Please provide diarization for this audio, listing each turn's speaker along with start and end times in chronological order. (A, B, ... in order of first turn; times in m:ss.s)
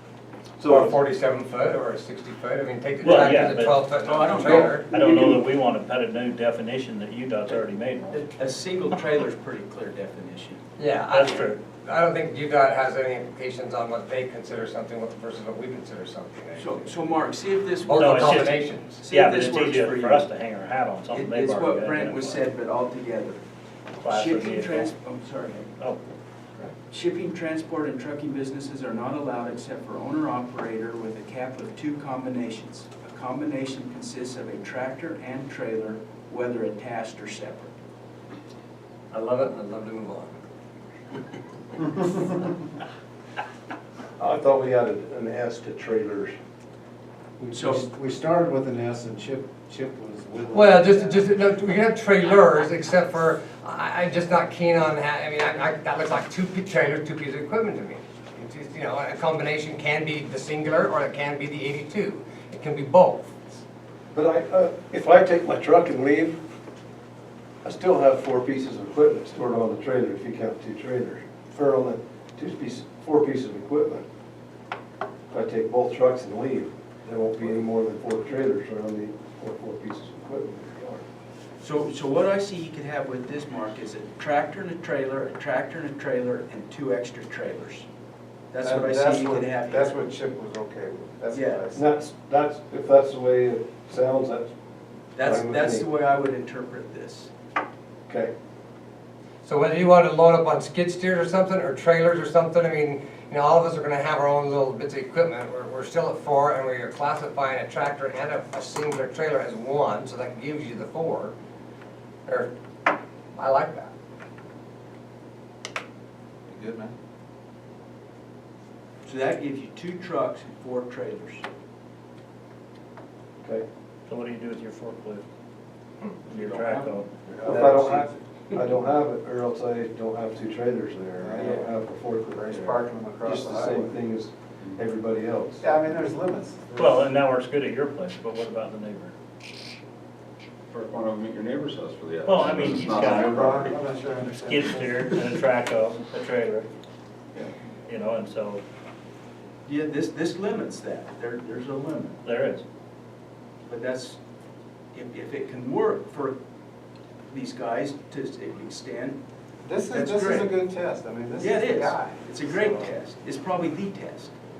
0:00.6-0:01.0 A
0:00.7-0:04.8 B
0:03.0-0:03.9 C
0:04.0-0:04.8 D
0:04.7-0:08.2 C
0:04.9-0:05.4 A
0:08.1-0:10.6 D
0:10.8-0:17.2 B
0:11.1-0:11.6 C
0:16.6-0:20.3 D
0:17.8-0:19.0 B
0:17.9-0:22.4 C
0:21.1-0:23.4 D
0:24.0-0:24.9 C
0:24.0-0:25.7 D
0:26.9-0:37.7 D
0:39.1-0:40.3 B
0:44.2-0:46.3 A
0:47.4-0:51.3 E
0:47.5-0:47.8 D
0:50.5-1:03.4 B
1:04.1-1:06.4 A
1:07.6-1:14.0 A
1:15.3-1:21.0 A
1:21.6-1:27.8 D
1:28.5-1:30.0 D
1:28.6-1:31.8 E
1:31.3-1:31.7 D
1:31.7-1:34.5 A
1:35.2-1:37.3 D
1:35.2-1:35.8 A
1:38.1-1:38.3 A
1:39.4-1:51.3 B
1:52.2-1:52.5 B
1:53.3-1:53.9 B
1:56.5-1:56.9 F
1:59.0-2:01.5 D
2:04.1-2:05.2 C
2:06.3-2:07.1 C
2:06.4-2:06.9 D
2:07.3-2:08.1 E
2:07.4-2:15.6 A
2:07.5-2:08.0 D
2:11.2-2:11.7 E
2:12.3-2:14.0 E
2:15.6-2:17.0 E
2:16.8-2:19.1 C
2:20.7-2:23.8 F
2:22.2-2:23.5 C
2:22.8-2:25.1 E
2:24.5-2:26.7 C
2:27.8-2:28.6 C
2:29.6-2:32.2 D
2:32.2-2:32.6 C
2:33.7-2:34.2 D
2:34.9-2:36.4 D
2:37.3-2:39.2 D
2:39.6-2:42.9 E
2:39.9-2:40.6 D
2:41.4-2:44.3 D